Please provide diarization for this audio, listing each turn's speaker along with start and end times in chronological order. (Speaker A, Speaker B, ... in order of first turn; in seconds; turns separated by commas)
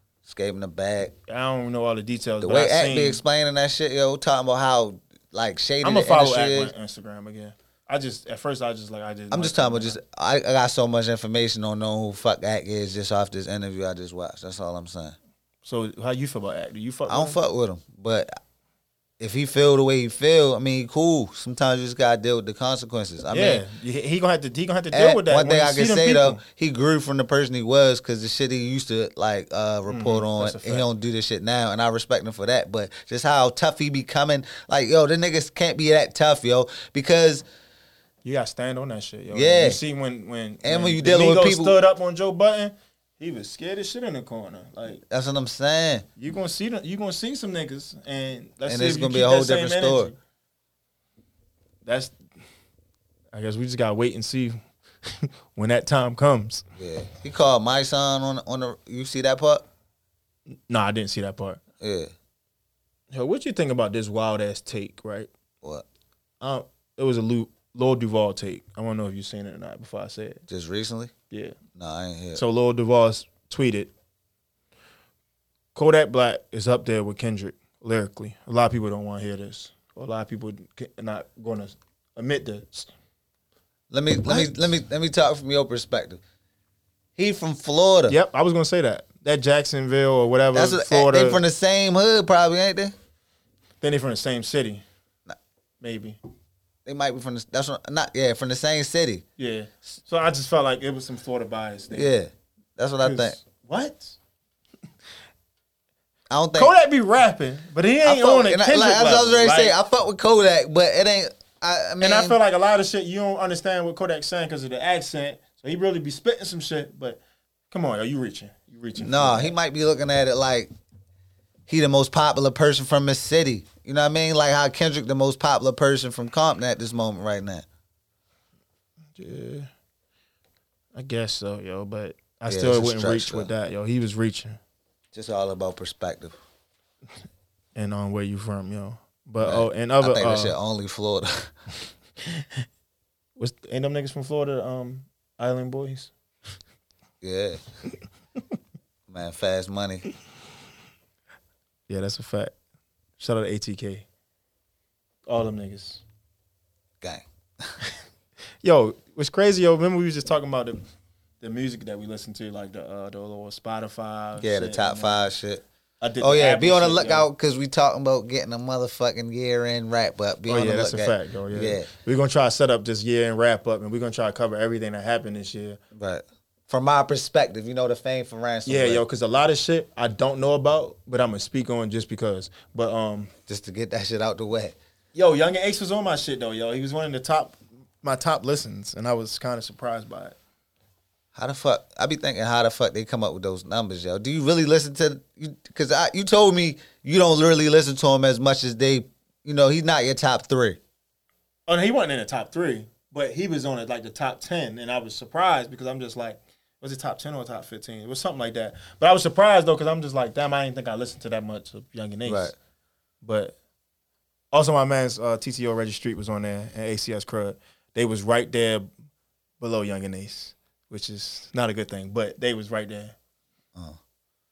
Speaker A: 0.2-1.1, Speaker B: 1.3-3.2, Speaker A: 2.4-6.7, Speaker B: 5.8-10.0, Speaker A: 9.3-15.2, Speaker B: 15.6-17.4, Speaker A: 17.1-18.4, Speaker A: 19.2-23.6, Speaker B: 23.3-26.4, Speaker A: 24.9-37.4, Speaker B: 29.9-30.9, Speaker B: 38.2-45.0, Speaker A: 39.3-39.8, Speaker A: 40.6-41.8, Speaker A: 45.0-46.0, Speaker B: 46.2-50.2, Speaker A: 48.6-50.1, Speaker B: 51.8-52.1, Speaker B: 53.3-54.6, Speaker B: 55.2-56.6, Speaker A: 56.8-59.6, Speaker B: 60.7-61.6, Speaker A: 61.8-62.1, Speaker B: 63.1-65.3, Speaker B: 66.4-70.4, Speaker A: 70.5-71.1, Speaker A: 71.7-72.4, Speaker B: 72.3-73.9, Speaker B: 75.7-82.9, Speaker A: 83.9-86.2, Speaker B: 84.2-84.7, Speaker A: 87.2-88.2, Speaker B: 88.1-91.4, Speaker A: 90.5-92.9, Speaker B: 93.8-94.8, Speaker B: 95.8-96.2, Speaker A: 96.8-99.2, Speaker B: 99.4-102.1, Speaker A: 101.9-103.4, Speaker B: 103.0-104.2, Speaker A: 106.3-106.7, Speaker B: 106.5-109.8, Speaker A: 108.0-112.4, Speaker B: 112.0-117.2, Speaker B: 117.7-119.5, Speaker A: 119.0-120.7, Speaker A: 121.7-127.6, Speaker B: 129.2-129.7, Speaker B: 130.9-134.6, Speaker A: 132.5-133.5, Speaker A: 135.1-136.4, Speaker B: 137.8-140.6, Speaker A: 139.4-141.5, Speaker B: 143.4-146.1, Speaker A: 147.2-147.6, Speaker A: 149.1-150.1, Speaker B: 151.9-152.5, Speaker B: 153.2-154.0, Speaker B: 155.3-156.0, Speaker A: 157.0-157.7, Speaker B: 158.6-160.8, Speaker B: 161.4-165.2, Speaker A: 164.4-165.6, Speaker B: 166.0-167.3, Speaker A: 166.2-171.9, Speaker B: 170.5-175.8, Speaker A: 175.9-179.0, Speaker B: 178.7-183.3, Speaker A: 183.5-184.7, Speaker B: 185.1-190.3, Speaker A: 191.3-200.8, Speaker B: 201.7-212.5, Speaker A: 212.2-212.5, Speaker B: 213.2-213.5, Speaker B: 214.5-218.9, Speaker B: 219.6-223.1